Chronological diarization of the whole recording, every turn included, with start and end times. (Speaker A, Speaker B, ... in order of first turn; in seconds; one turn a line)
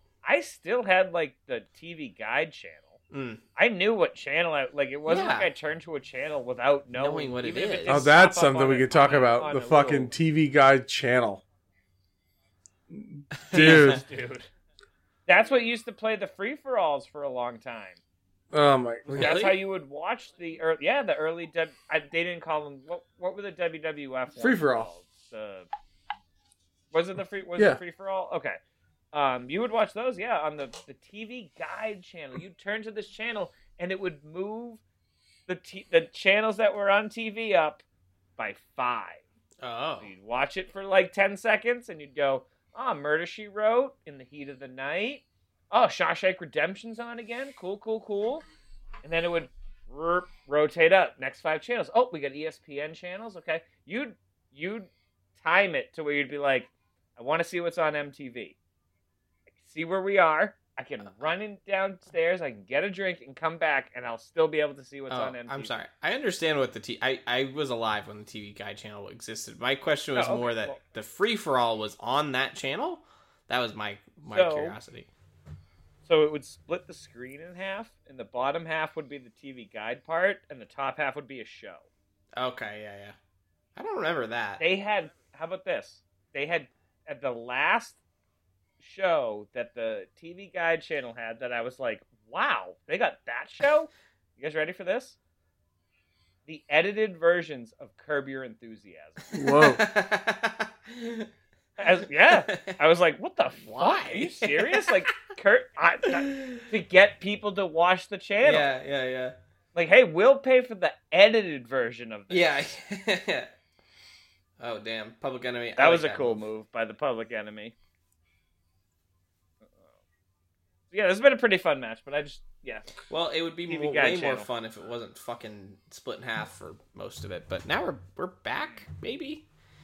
Speaker A: 0.2-3.0
Speaker B: 3.1-3.4
Speaker A: 3.6-10.1
Speaker B: 5.1-5.5
Speaker B: 6.9-8.1
Speaker C: 7.9-11.4
Speaker C: 12.9-14.0
Speaker B: 13.4-14.0
Speaker A: 13.5-14.5
Speaker A: 15.3-18.0
Speaker C: 18.5-19.4
Speaker A: 19.1-25.7
Speaker B: 19.1-19.6
Speaker C: 24.4-24.9
Speaker A: 26.9-28.6
Speaker A: 29.1-34.8
Speaker A: 35.5-37.8
Speaker A: 38.4-39.2
Speaker B: 39.6-40.1
Speaker A: 40.0-48.5
Speaker A: 49.0-58.6
Speaker A: 59.6-65.7
Speaker B: 65.1-75.1
Speaker A: 70.1-70.8
Speaker A: 74.3-74.8
Speaker A: 76.1-81.9
Speaker B: 82.4-83.2
Speaker B: 83.8-84.6
Speaker A: 84.6-88.0
Speaker A: 88.8-95.2
Speaker A: 96.5-99.3
Speaker C: 99.3-99.8
Speaker B: 99.4-101.3
Speaker A: 101.8-108.7
Speaker B: 102.3-102.8
Speaker B: 103.6-105.0
Speaker B: 106.1-106.6
Speaker B: 108.4-109.4
Speaker A: 109.7-112.5
Speaker B: 112.3-113.5
Speaker B: 114.6-116.4
Speaker A: 115.8-117.7
Speaker A: 120.9-122.9
Speaker B: 123.1-129.4
Speaker A: 123.7-124.5